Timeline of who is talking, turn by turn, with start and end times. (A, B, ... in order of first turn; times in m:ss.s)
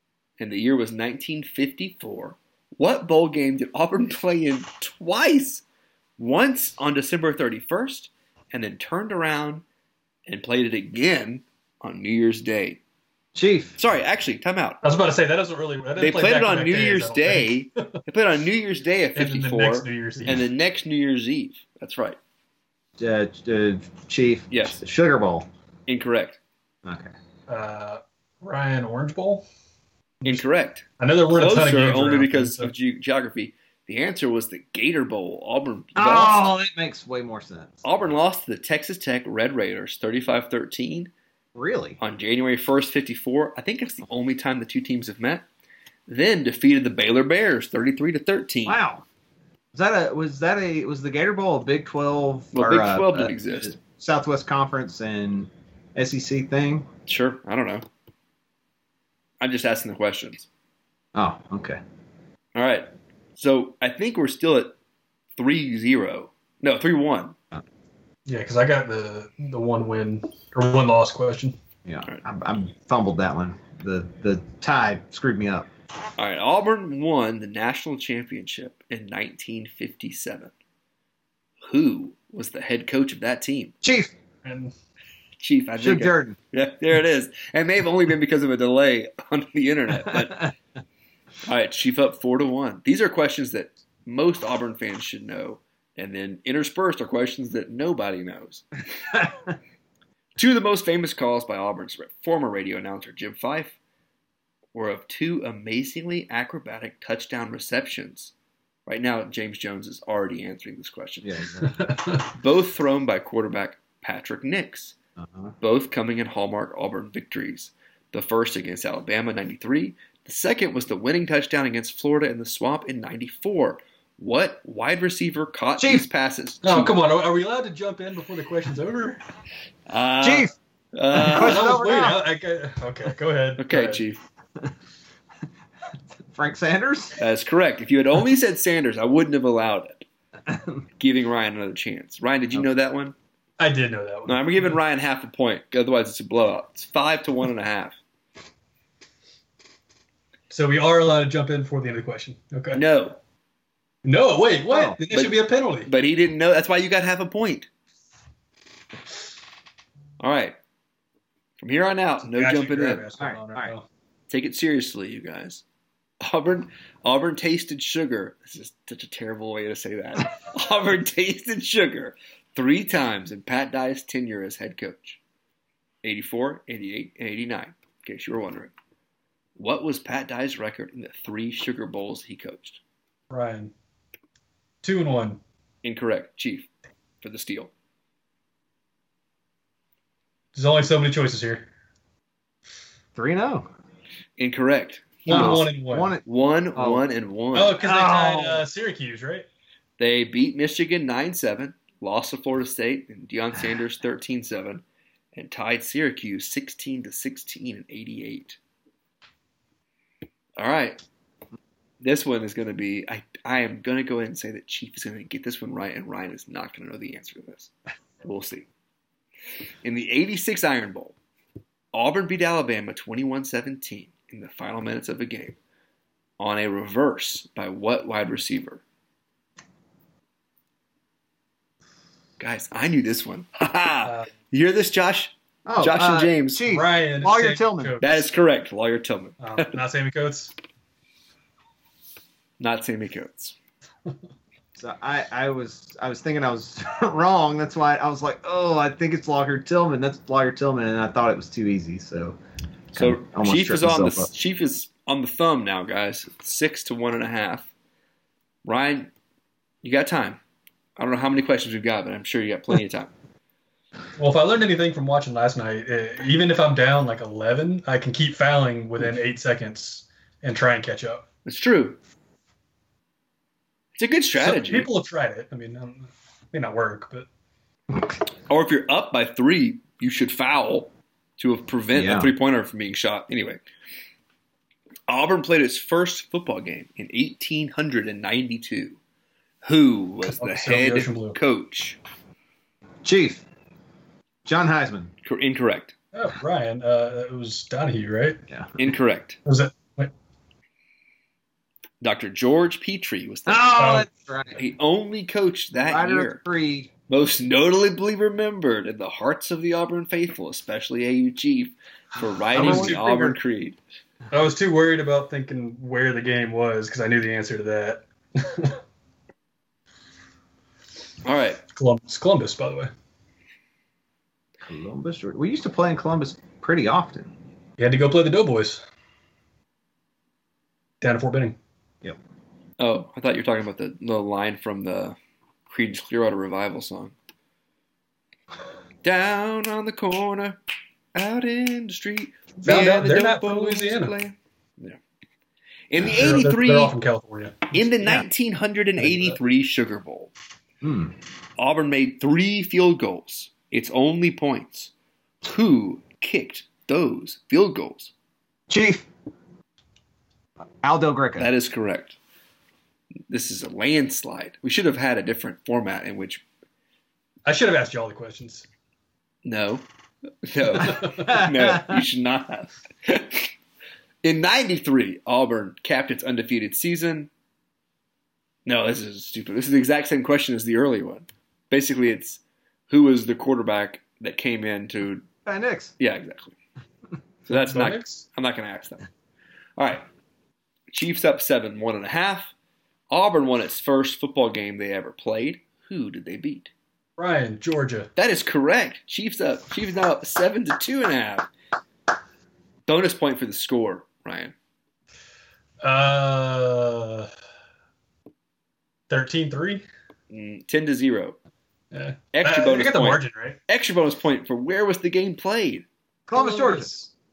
0:00.4-0:05.6 A
0:06.2-0:09.6 A
0:10.3-0:12.8 A
0:13.4-0:13.8 B
0:13.8-0:14.8 A
0:14.8-0:17.9 C
0:16.0-0:22.2 A
0:19.2-0:20.5 C
0:23.0-0:25.5 B
0:24.5-0:24.8 A
0:25.9-0:26.4 A
0:26.8-0:27.1 B
0:27.5-0:29.4 C
0:30.2-0:36.5 A
0:31.0-0:32.7 C
0:36.0-0:37.8 B
0:37.8-0:41.1 A
0:41.6-0:42.0 B
0:42.0-0:45.4 A
0:46.1-0:48.8 A
0:48.6-0:49.0 B
0:49.7-0:56.9 B
0:52.5-0:53.8 A
0:57.1-0:57.9 A
0:59.4-1:00.5 A
1:01.2-1:01.8 B
1:02.6-1:04.8 A
1:05.4-1:07.4 A
1:08.3-1:11.6 C
1:11.9-1:15.7 B
1:16.2-1:20.5 A
1:21.7-1:23.7 A
1:23.8-1:24.1 B
1:24.4-1:24.7 C
1:25.4-1:30.5 A
1:25.8-1:26.4 B
1:31.4-1:38.6 A
1:40.4-1:43.8 A
1:44.7-1:48.3 A
1:48.9-1:51.4 A
1:51.2-1:51.9 B
1:51.9-1:52.2 C
1:52.2-1:55.0 A
1:55.2-1:55.5 B
1:55.6-2:07.0 A
2:05.8-2:06.1 B
2:06.6-2:09.2 C
2:09.9-2:11.7 A
2:10.2-2:10.5 B
2:11.1-2:12.2 B
2:11.2-2:14.0 C
2:13.6-2:14.2 A
2:16.3-2:17.2 B
2:17.2-2:20.0 A
2:20.5-2:20.8 B
2:21.0-2:23.2 A
2:23.6-2:24.8 C
2:24.3-2:28.0 A
2:30.5-2:32.8 C
2:32.7-2:33.2 A
2:34.0-2:35.9 C
2:34.7-2:35.0 B
2:35.1-2:37.7 A
2:40.2-2:40.6 A
2:41.6-2:43.0 A
2:42.2-2:43.8 C
2:43.2-2:43.7 B
2:44.3-2:45.6 A
2:46.2-2:55.2 A
2:56.0-2:58.7 A
2:59.6-3:02.8 A
3:03.3-3:03.7 C
3:04.8-3:05.4 C
3:05.8-3:06.7 A
3:07.2-3:07.7 A
3:10.6-3:11.7 C
3:13.2-3:13.7 B
3:14.4-3:15.7 A
3:15.2-3:16.1 C
3:15.3-3:16.2 B
3:16.2-3:17.8 A
3:16.8-3:17.0 B
3:17.5-3:19.5 C
3:17.8-3:18.7 B
3:20.0-3:28.6 A
3:30.6-3:31.0 A
3:32.0-3:37.7 A
3:38.2-3:38.7 A
3:39.8-3:41.2 A
3:41.9-3:45.6 A
3:46.4-3:48.8 A
3:52.4-3:56.6 A
3:55.6-3:58.0 B
3:56.6-3:58.2 C
3:58.0-3:59.8 A
3:59.4-4:00.5 C
4:02.6-4:03.6 A
4:04.8-4:12.4 B
4:12.9-4:14.3 B
4:13.0-4:17.7 A
4:18.6-4:19.1 A
4:19.8-4:20.4 A
4:21.0-4:23.1 A
4:24.2-4:31.2 C
4:31.5-4:32.0 A
4:34.0-4:34.9 A
4:34.4-4:37.3 C
4:38.5-4:43.6 A
4:41.9-4:42.3 B
4:45.1-4:49.0 A
4:49.6-4:52.0 A
4:50.3-4:51.4 C
4:53.0-4:53.4 B
4:54.4-4:55.1 B
4:55.2-4:56.0 A
4:56.1-4:58.4 C
4:58.8-4:59.4 A
4:59.4-5:00.1 C
5:02.0-5:03.9 A
5:03.5-5:04.6 B
5:03.8-5:04.1 C
5:04.6-5:06.4 A
5:05.8-5:06.9 B
5:07.1-5:13.8 A
5:12.5-5:13.4 B
5:12.6-5:13.0 C
5:14.3-5:18.8 C
5:21.2-5:21.6 A
5:21.7-5:22.9 C
5:24.6-5:27.3 B
5:27.8-5:28.8 C
5:31.0-5:31.6 C
5:32.8-5:35.2 A
5:35.7-5:37.1 A
5:39.0-5:40.6 A
5:41.1-5:45.0 A
5:42.6-5:44.2 C
5:45.9-5:46.9 A
5:46.0-5:47.8 C
5:47.7-5:50.3 A
5:49.0-5:49.4 C
5:50.8-5:51.1 B
5:51.6-5:54.9 A
5:55.4-5:58.1 A
5:58.7-5:59.1 B
6:00.8-6:01.5 B
6:01.4-6:02.2 A
6:03.3-6:06.4 A
6:07.5-6:08.7 C
6:09.4-6:09.8 A
6:10.4-6:13.5 A
6:10.8-6:11.3 C
6:11.3-6:12.0 B
6:14.2-6:17.3 A
6:18.7-6:25.3 A
6:25.4-6:25.9 B
6:26.0-6:26.6 A
6:27.5-6:29.0 A
6:27.5-6:28.2 C
6:29.8-6:30.0 A
6:30.9-6:32.5 A
6:33.1-6:36.7 A
6:37.2-6:38.1 C
6:38.2-6:41.5 A
6:42.9-6:44.5 A
6:45.8-6:47.3 C
6:49.1-6:49.8 C
6:50.3-6:51.4 A
6:51.9-6:53.6 C
6:52.3-6:55.9 A
6:56.3-6:56.9 B
6:56.3-6:57.1 C